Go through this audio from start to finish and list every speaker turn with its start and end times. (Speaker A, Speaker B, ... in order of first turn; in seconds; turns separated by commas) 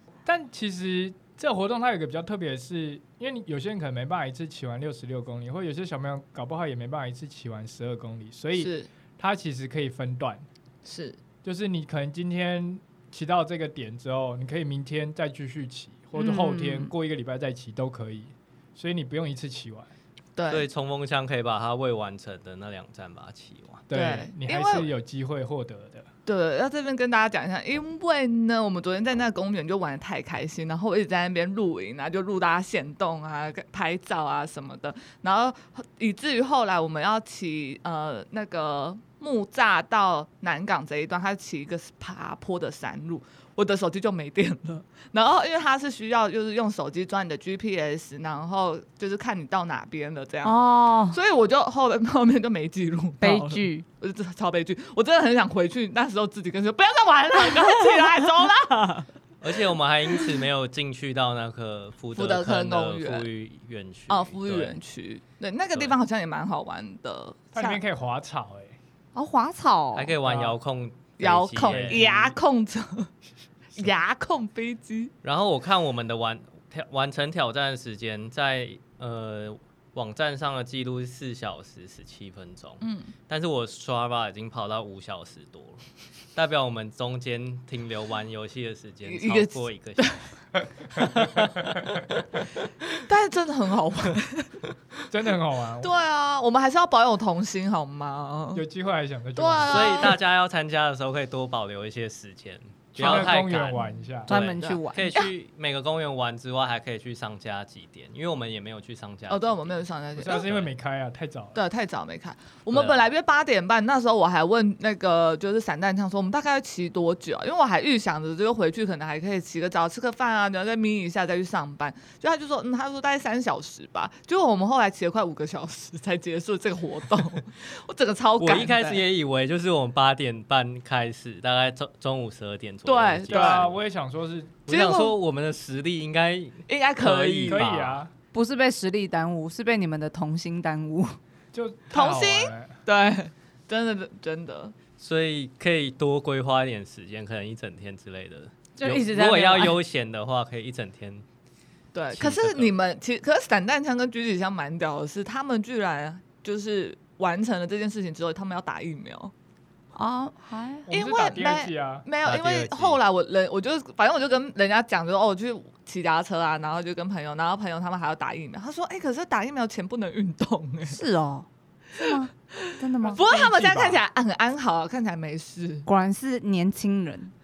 Speaker A: 0.2-10.4, Speaker B: 8.5-8.9, Speaker B: 10.8-11.2, Speaker A: 11.4-19.9, Speaker C: 16.1-16.9, Speaker B: 20.4-20.6, Speaker D: 20.5-23.8, Speaker A: 23.9-26.1, Speaker B: 23.9-24.9, Speaker B: 26.2-50.6, Speaker C: 50.4-51.2, Speaker B: 51.1-59.0, Speaker C: 53.2-53.8, Speaker D: 59.4-64.8, Speaker B: 62.1-63.3, Speaker B: 64.1-67.8, Speaker A: 67.5-68.8, Speaker C: 69.1-70.1, Speaker D: 69.9-72.1, Speaker A: 70.2-70.5, Speaker B: 71.2-73.1, Speaker A: 71.7-72.3, Speaker B: 73.8-75.1, Speaker D: 75.2-85.8, Speaker B: 82.8-83.1, Speaker D: 86.3-90.1, Speaker B: 89.0-90.2, Speaker D: 90.9-92.0, Speaker B: 93.0-94.5, Speaker A: 95.1-95.9, Speaker B: 95.8-98.6, Speaker A: 98.5-100.1, Speaker B: 99.3-100.2, Speaker D: 99.7-109.8, Speaker A: 103.0-104.3, Speaker B: 103.0-103.3, Speaker C: 104.3-105.2, Speaker B: 104.6-105.3, Speaker B: 109.3-110.4, Speaker A: 110.2-111.6, Speaker D: 110.3-110.7, Speaker B: 111.5-129.0, Speaker D: 128.4-133.7, Speaker B: 132.8-133.7, Speaker A: 133.3-134.6, Speaker D: 134.7-138.0, Speaker B: 134.7-135.1, Speaker B: 136.7-137.7, Speaker A: 137.5-138.1, Speaker C: 138.3-141.2, Speaker A: 141.5-142.7, Speaker B: 141.9-144.7, Speaker D: 145.0-151.2, Speaker C: 148.8-149.8, Speaker B: 151.9-159.3, Speaker D: 152.1-152.7, Speaker C: 159.9-160.9, Speaker A: 160.9-162.1, Speaker B: 160.9-171.0, Speaker D: 162.2-163.0, Speaker C: 170.9-173.2, Speaker B: 172.7-175.9, Speaker A: 173.0-174.0, Speaker C: 175.8-177.3